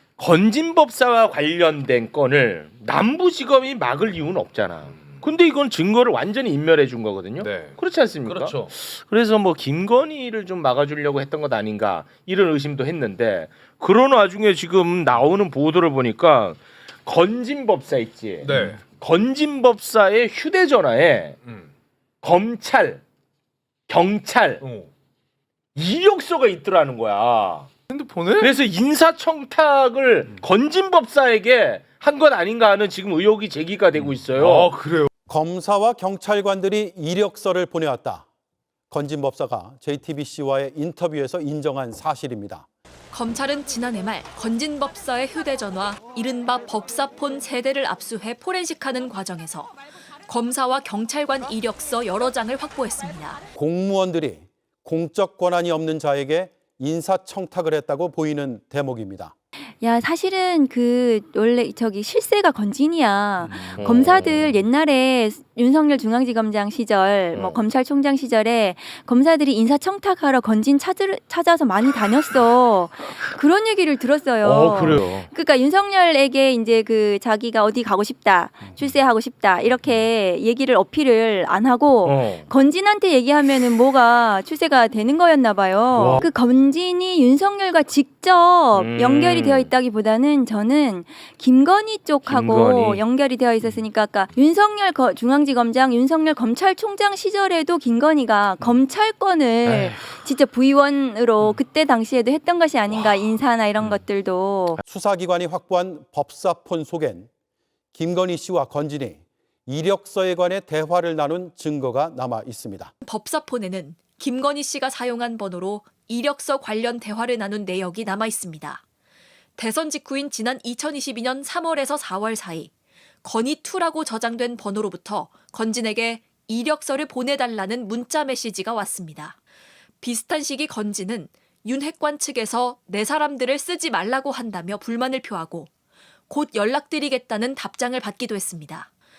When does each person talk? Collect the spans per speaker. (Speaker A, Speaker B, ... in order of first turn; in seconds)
Speaker A: 0.2-21.4, 22.2-23.0, 23.9-24.6, 25.7-27.7, 28.4-34.7, 63.7-64.5, 67.3-67.6, 74.4-75.3, 82.0-82.5, 85.9-86.2, 88.7-89.7, 92.2-93.0, 99.6-100.0
Speaker B: 7.4-8.7, 18.4-18.8, 24.6-24.9, 27.9-28.5, 34.4-35.1
Speaker C: 35.3-38.2, 38.9-42.6, 53.5-59.3, 104.8-107.3, 107.9-112.9
Speaker D: 43.1-49.7, 50.2-53.4, 113.0-118.8, 119.6-122.7, 123.2-129.3, 130.0-135.7, 136.3-138.9
Speaker E: 59.8-104.8